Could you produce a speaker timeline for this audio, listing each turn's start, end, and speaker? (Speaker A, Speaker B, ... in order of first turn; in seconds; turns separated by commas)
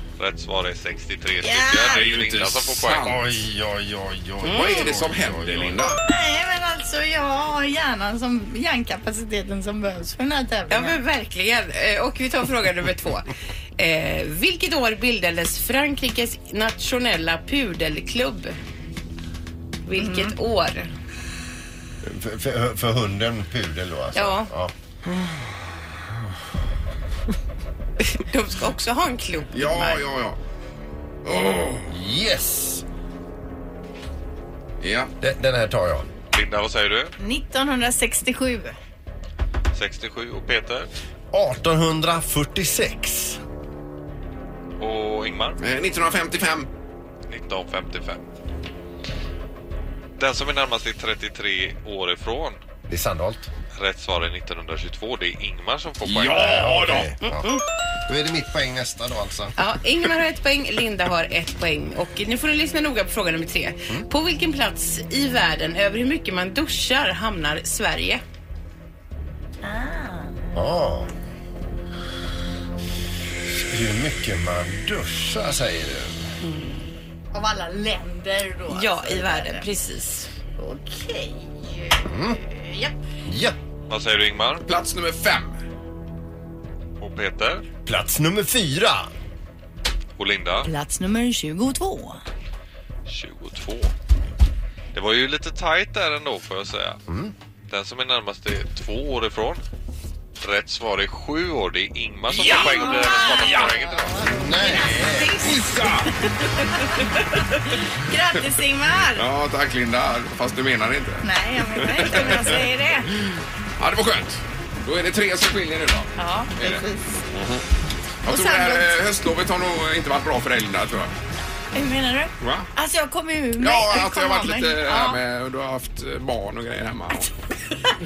Speaker A: 0.2-3.2, Speaker B: 1.4-2.1, Speaker C: 1.9-3.4, Speaker D: 3.0-5.9, Speaker C: 4.4-6.0, Speaker B: 6.1-11.0, Speaker E: 10.7-18.6, Speaker E: 19.9-20.9, Speaker B: 20.0-20.4, Speaker D: 22.0-24.7, Speaker E: 24.1-24.5, Speaker E: 28.0-30.0, Speaker C: 29.5-30.4, Speaker C: 31.2-31.9, Speaker D: 31.9-32.8, Speaker C: 34.8-35.1, Speaker D: 35.2-36.1, Speaker A: 36.3-37.1, Speaker B: 37.2-38.8, Speaker A: 39.7-40.9, Speaker D: 41.3-43.4, Speaker A: 44.8-45.6, Speaker C: 45.6-46.7, Speaker A: 47.3-48.2, Speaker A: 50.2-52.6, Speaker D: 52.9-53.5, Speaker A: 53.8-56.8, Speaker C: 56.1-57.2, Speaker D: 56.3-57.5, Speaker E: 57.2-57.6, Speaker D: 58.1-59.5, Speaker E: 59.6-68.2, Speaker B: 69.6-70.4, Speaker D: 70.5-71.1, Speaker D: 73.5-76.3, Speaker E: 76.4-76.8, Speaker B: 77.3-79.7, Speaker E: 78.7-80.3, Speaker B: 80.6-83.0, Speaker D: 82.0-82.4, Speaker D: 83.3-83.6, Speaker A: 83.9-84.7, Speaker C: 84.7-85.6, Speaker A: 87.0-87.7, Speaker D: 87.9-89.1, Speaker A: 90.2-90.7, Speaker B: 90.6-92.2, Speaker A: 93.1-93.9, Speaker A: 94.9-97.0, Speaker D: 97.1-97.3, Speaker A: 97.7-99.6, Speaker A: 100.4-104.2, Speaker C: 102.3-103.8, Speaker B: 102.4-105.8, Speaker D: 104.3-105.5, Speaker C: 105.3-106.3, Speaker B: 106.8-109.2, Speaker C: 109.1-112.7, Speaker B: 111.2-113.1, Speaker C: 113.8-117.7, Speaker B: 116.2-117.2, Speaker C: 118.2-121.2, Speaker B: 118.3-118.9, Speaker B: 121.7-125.2, Speaker C: 122.4-122.7, Speaker C: 123.6-127.3